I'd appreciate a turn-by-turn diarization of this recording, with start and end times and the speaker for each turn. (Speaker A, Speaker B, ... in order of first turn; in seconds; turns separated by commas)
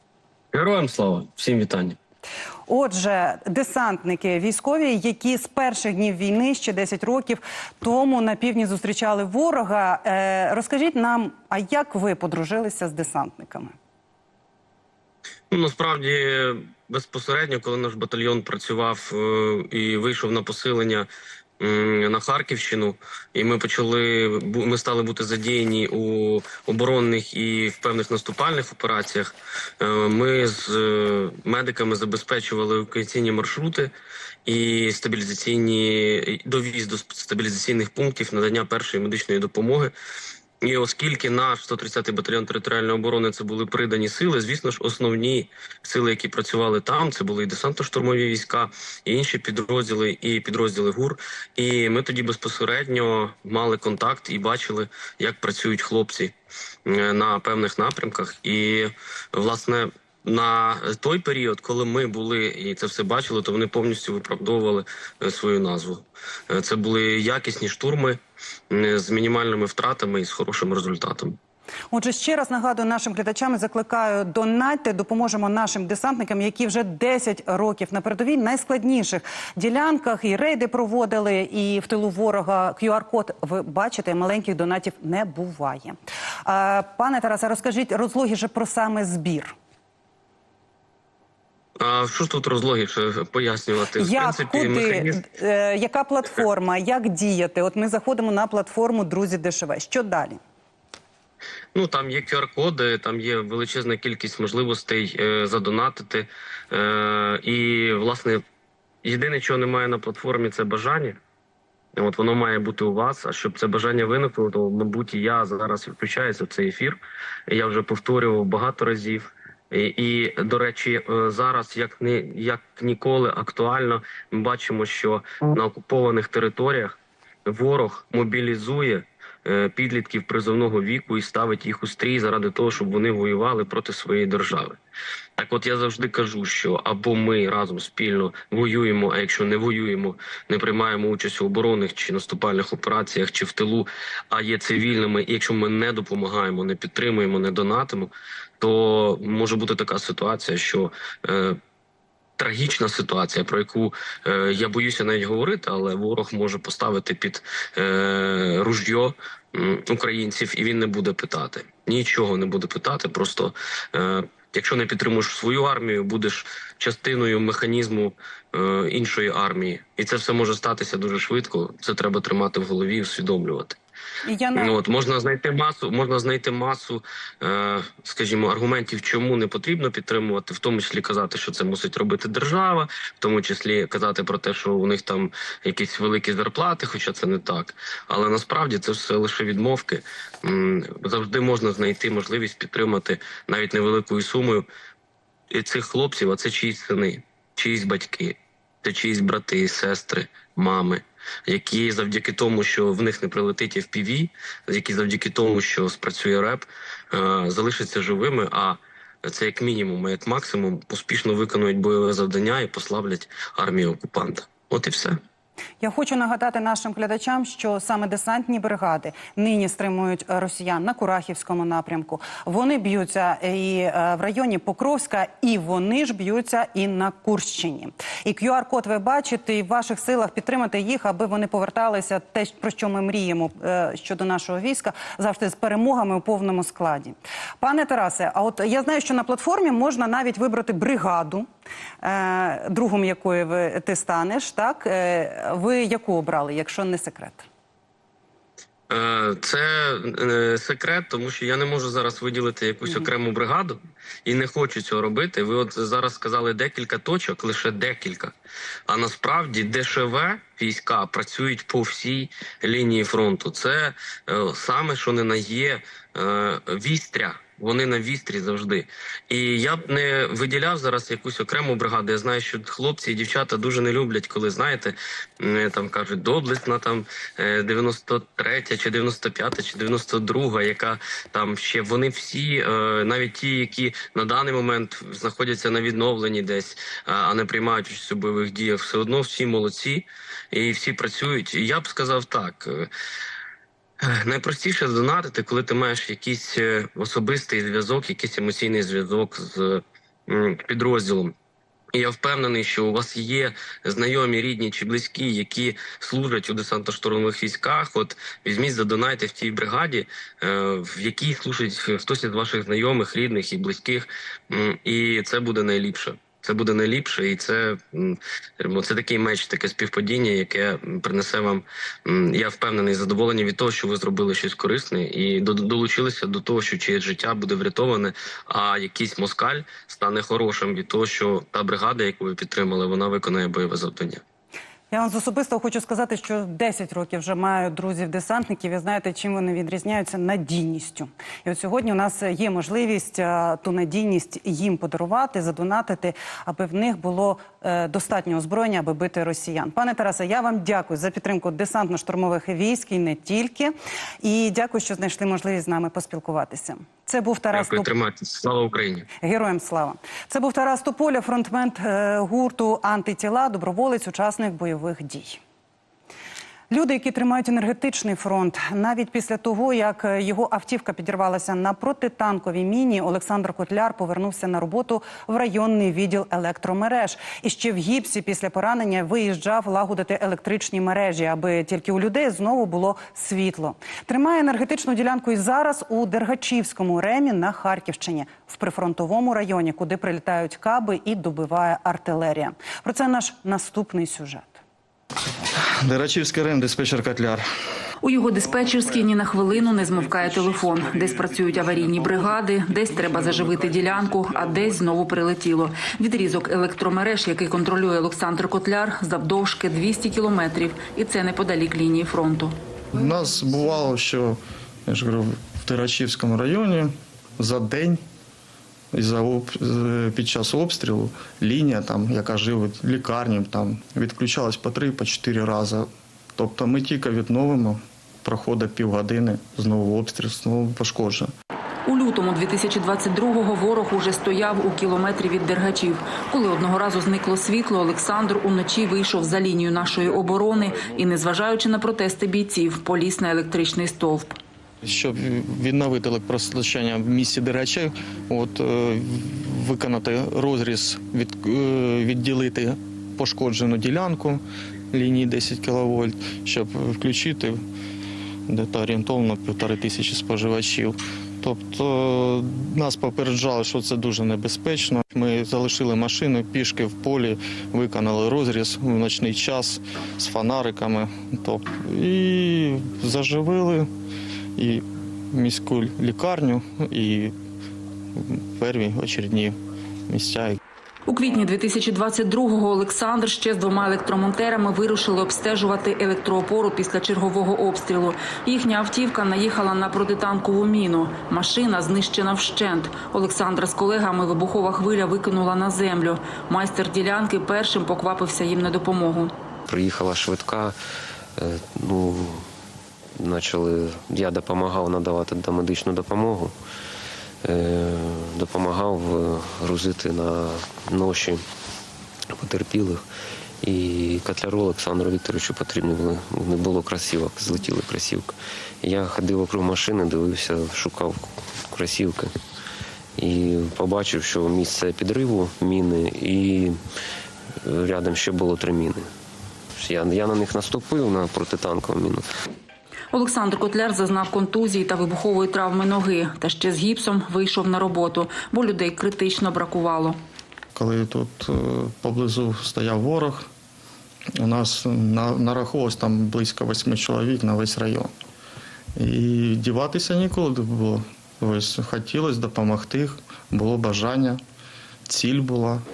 Speaker A: 0.5-1.9, Speaker B: 2.7-13.7, Speaker A: 15.5-21.1, Speaker A: 21.6-33.9, Speaker A: 34.5-39.9, Speaker A: 40.6-56.3, Speaker A: 56.9-68.2, Speaker A: 68.7-71.3, Speaker B: 71.9-89.5, Speaker A: 91.8-95.1, Speaker B: 94.0-100.4, Speaker A: 101.7-108.4, Speaker A: 109.0-111.2, Speaker A: 112.0-117.0, Speaker A: 117.5-134.8, Speaker A: 135.4-151.6, Speaker A: 152.4-173.8, Speaker B: 174.2-174.8, Speaker A: 174.6-194.7, Speaker A: 195.5-215.2, Speaker B: 215.8-241.4, Speaker B: 242.0-247.4, Speaker A: 248.9-258.3, Speaker A: 258.9-292.9, Speaker A: 294.0-301.3, Speaker A: 301.9-334.2, Speaker B: 334.9-357.9, Speaker A: 357.5-359.1, Speaker B: 359.2-365.4, Speaker B: 366.7-394.6, Speaker C: 395.8-397.4, Speaker D: 398.0-412.6, Speaker C: 412.9-418.0, Speaker C: 418.9-431.3, Speaker D: 431.9-444.4, Speaker C: 444.8-457.6, Speaker C: 458.5-473.9, Speaker C: 474.6-477.3, Speaker C: 478.2-479.6, Speaker C: 480.1-480.6, Speaker D: 481.1-499.3, Speaker E: 499.7-500.8, Speaker E: 501.4-502.4, Speaker E: 503.1-506.5, Speaker E: 507.4-511.4, Speaker E: 512.3-513.0, Speaker E: 513.6-522.3, Speaker E: 523.2-526.8, Speaker E: 527.6-529.1, Speaker E: 529.8-532.3, Speaker D: 533.1-540.2, Speaker C: 540.7-543.5, Speaker C: 544.4-548.1, Speaker C: 549.0-554.4, Speaker C: 555.1-555.8